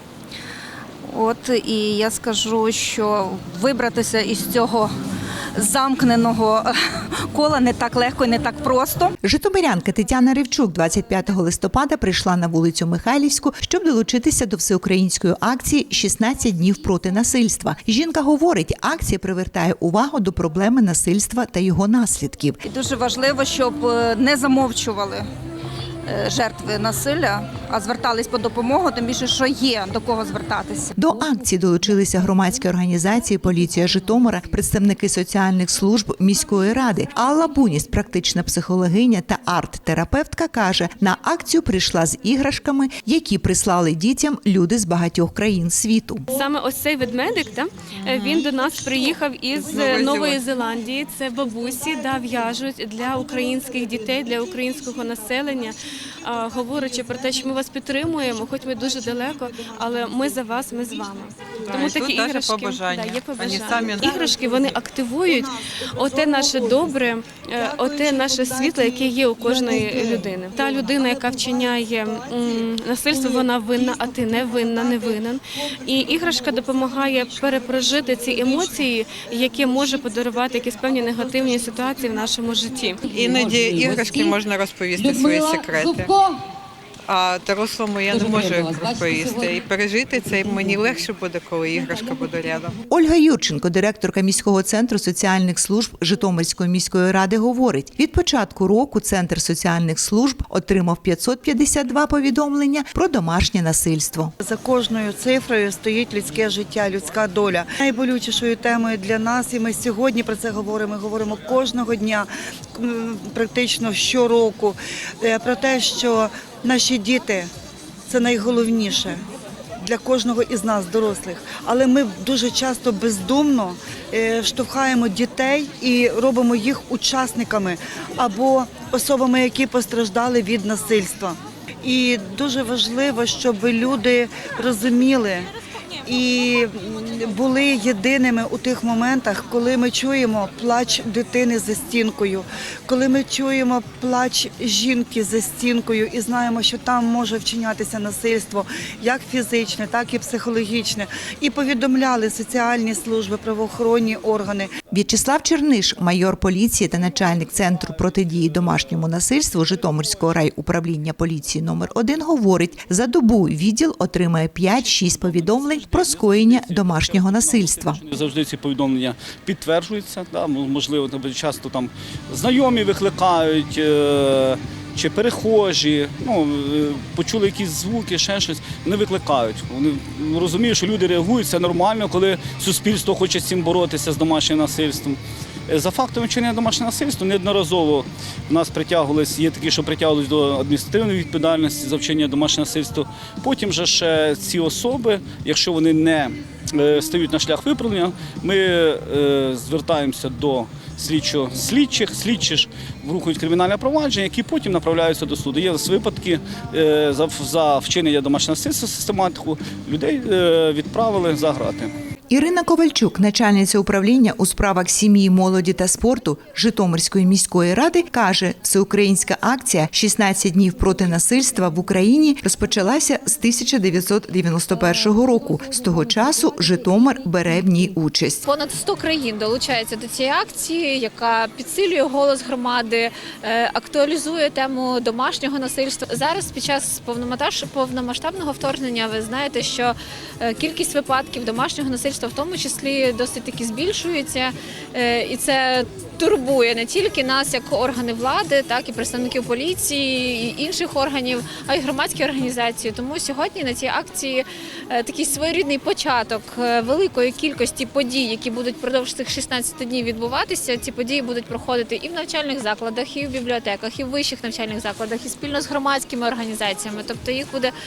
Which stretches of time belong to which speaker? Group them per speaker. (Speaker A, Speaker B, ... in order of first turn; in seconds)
Speaker A: 1.1-4.9, 5.5-9.1, 22.6-25.2, 26.1-30.9
Speaker B: 9.2-22.6, 30.9-46.2, 92.9-104.3, 154.9-168.0, 212.3-228.4
Speaker C: 46.3-83.1
Speaker D: 48.1-48.5, 49.5-50.4, 61.6-64.2, 83.1-86.3, 87.1-92.8
Speaker E: 67.7-69.9, 104.4-117.5, 118.1-119.2, 119.8-135.5, 136.0-154.7
Speaker F: 164.7-211.9
Speaker G: 228.4-267.7